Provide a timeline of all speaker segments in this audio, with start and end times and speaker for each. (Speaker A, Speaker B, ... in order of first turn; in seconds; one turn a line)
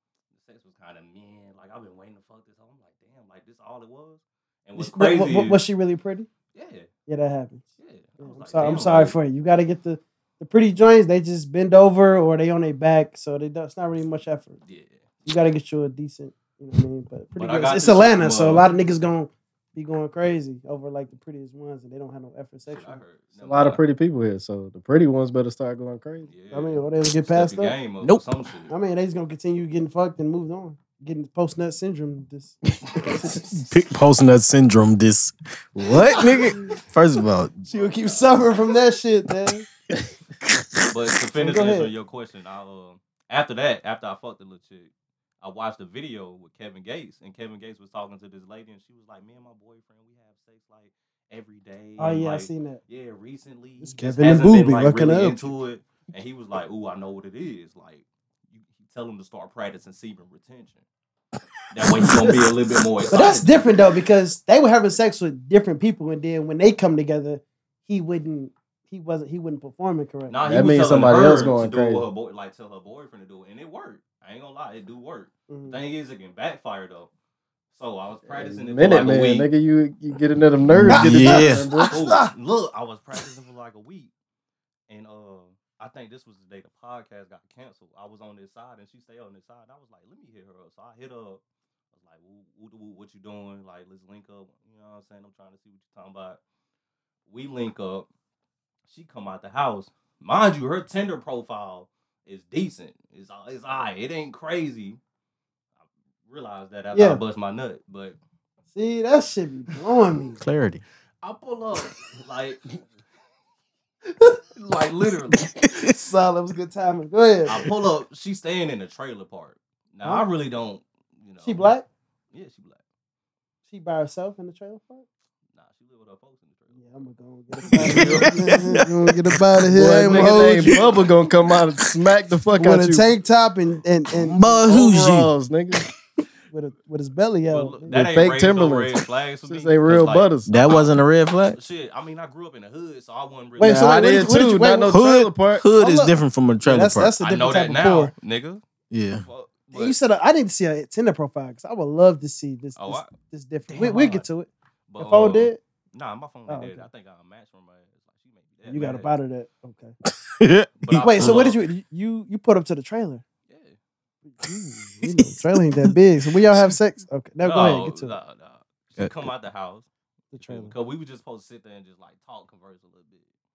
Speaker A: 0.3-5.6
Speaker B: 4.8-6.3
Speaker A: 6.5-6.9
Speaker B: 7.1-7.6
Speaker A: 7.8-9.2
Speaker B: 8.2-14.6
Speaker A: 14.7-15.0
Speaker B: 15.2-23.0
Speaker A: 17.4-18.7
Speaker A: 22.7-23.8
Speaker C: 23.4-26.3
Speaker A: 26.2-28.7
Speaker B: 26.5-27.7
Speaker B: 28.7-33.1
Speaker D: 33.4-37.6
Speaker B: 36.0-36.7
Speaker A: 37.6-38.4
Speaker B: 37.7-39.6
Speaker A: 40.9-60.8
Speaker B: 41.4-41.9
Speaker B: 52.0-52.8
Speaker B: 53.8-55.5
Speaker A: 61.7-63.7
Speaker B: 63.1-70.4
Speaker A: 70.3-77.1
Speaker C: 70.4-72.0
Speaker B: 75.5-75.8
Speaker A: 77.7-79.5
Speaker C: 78.3-82.0
Speaker D: 80.7-81.7
Speaker B: 80.8-82.3
Speaker A: 81.9-84.1
Speaker A: 84.9-91.4
Speaker A: 91.9-96.4
Speaker A: 97.3-98.1
Speaker A: 98.9-105.0
Speaker A: 106.3-108.2
Speaker B: 106.9-107.2
Speaker B: 108.7-110.4
Speaker D: 110.4-110.8
Speaker A: 111.2-112.7
Speaker B: 114.1-114.4
Speaker A: 114.5-115.5
Speaker D: 115.5-115.9
Speaker B: 115.7-117.7
Speaker A: 117.5-121.7
Speaker B: 120.0-120.3
Speaker B: 121.4-121.8
Speaker A: 122.3-122.8
Speaker B: 123.7-125.0
Speaker A: 125.5-126.8
Speaker B: 126.7-130.8
Speaker A: 127.7-128.6
Speaker D: 127.7-131.6
Speaker C: 129.7-133.1
Speaker B: 132.6-134.6
Speaker D: 134.1-135.3
Speaker C: 134.7-135.8
Speaker B: 136.5-137.9
Speaker A: 137.5-141.0
Speaker C: 137.9-140.5
Speaker D: 140.5-141.6
Speaker A: 141.5-144.0
Speaker B: 143.6-145.0
Speaker C: 143.6-145.6
Speaker D: 144.9-147.1
Speaker B: 145.7-148.1
Speaker A: 147.2-148.6
Speaker D: 148.9-149.2
Speaker A: 149.2-149.9
Speaker B: 149.7-155.6
Speaker A: 152.8-153.1
Speaker A: 153.7-154.2
Speaker A: 154.9-159.1
Speaker B: 156.5-156.8
Speaker B: 158.6-159.9
Speaker D: 160.1-161.4
Speaker A: 160.8-161.6
Speaker B: 160.9-163.2
Speaker A: 163.5-163.8
Speaker B: 164.2-168.1
Speaker D: 165.0-165.9
Speaker A: 167.4-169.9
Speaker D: 169.0-169.2
Speaker B: 170.3-170.7
Speaker A: 170.4-173.2